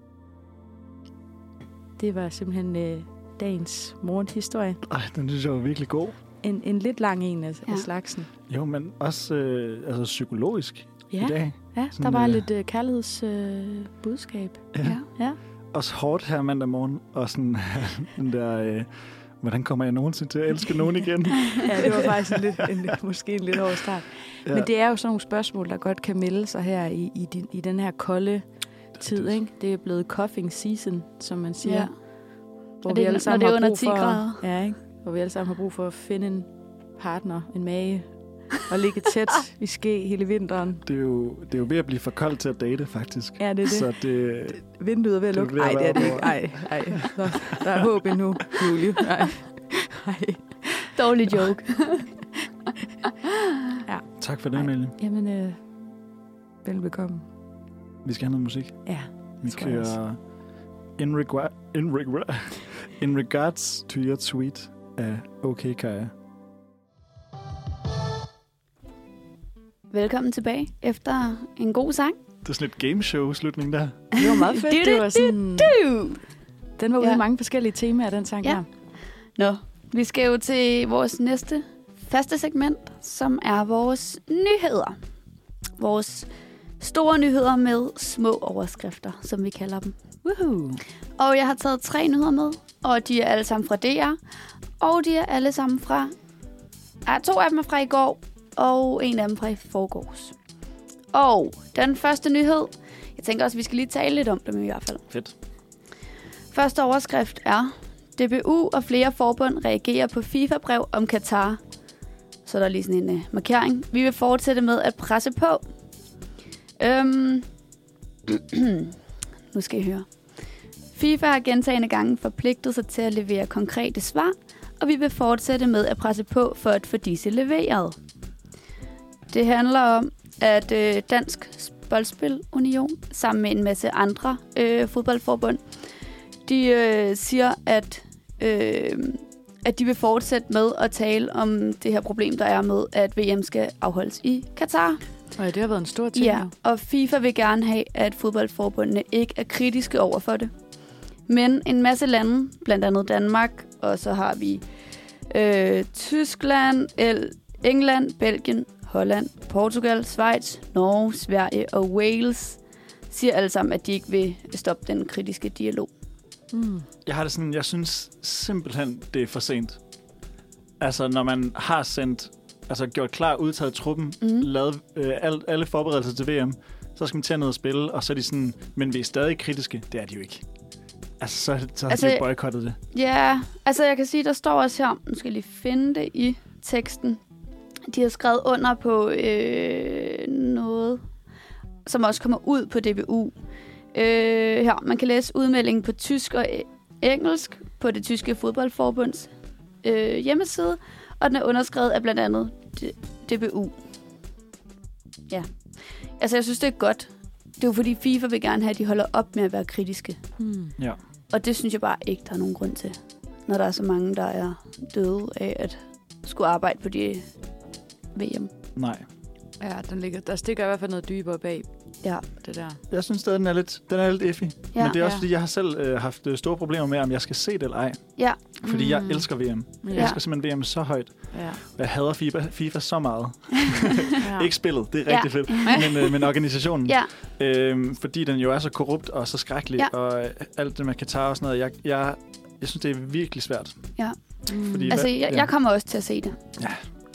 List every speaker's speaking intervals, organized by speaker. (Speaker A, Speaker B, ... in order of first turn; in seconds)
Speaker A: 2.0-4.8, 6.4-8.3, 11.1-15.4, 21.6-28.4, 29.0-31.9, 32.8-40.8, 43.4-43.9, 44.5-51.0, 53.8-55.6, 56.6-57.2, 58.8-60.0, 74.1-75.8, 76.8-78.6, 90.2-90.8, 145.4-146.5, 166.5-166.9, 210.4-210.7, 219.6-221.7, 222.3-222.8, 224.9-225.2, 228.6-229.3, 229.8-230.2, 231.3-231.6, 234.2-234.5, 244.5-245.0
Speaker B: 4.8-6.2, 8.5-12.4, 14.7-15.0, 15.7-18.9, 19.4-22.6, 28.9-29.3, 40.8-44.6, 45.3-47.6, 54.2-55.0, 58.0-60.2, 61.0-66.1, 72.4-74.2, 167.0-169.8, 170.8-180.4, 181.2-182.8, 218.8-219.1, 222.9-243.9, 244.7-245.5, 246.6-246.8
Speaker C: 31.6-31.9, 32.9-34.4, 51.0-52.1, 69.9-72.2, 74.1-76.2, 79.4-85.0, 85.8-86.3, 86.8-90.0, 91.2-94.2, 94.8-96.1, 97.0-100.3, 101.1-105.0, 106.5-111.6, 112.5-115.6, 116.8-117.5, 118.3-119.0, 119.5-120.0, 120.9-128.0, 129.3-135.6, 136.4-145.0, 146.1-150.5, 151.3-154.6, 155.3-162.6, 163.1-165.9, 174.2-174.5, 181.9-182.2, 182.9-187.2, 187.9-191.0, 191.9-193.3, 193.9-199.3, 199.8-203.8, 206.2-210.2, 211.3-217.2, 218.1-218.5, 233.6-234.1, 235.1-236.2, 244.8-246.4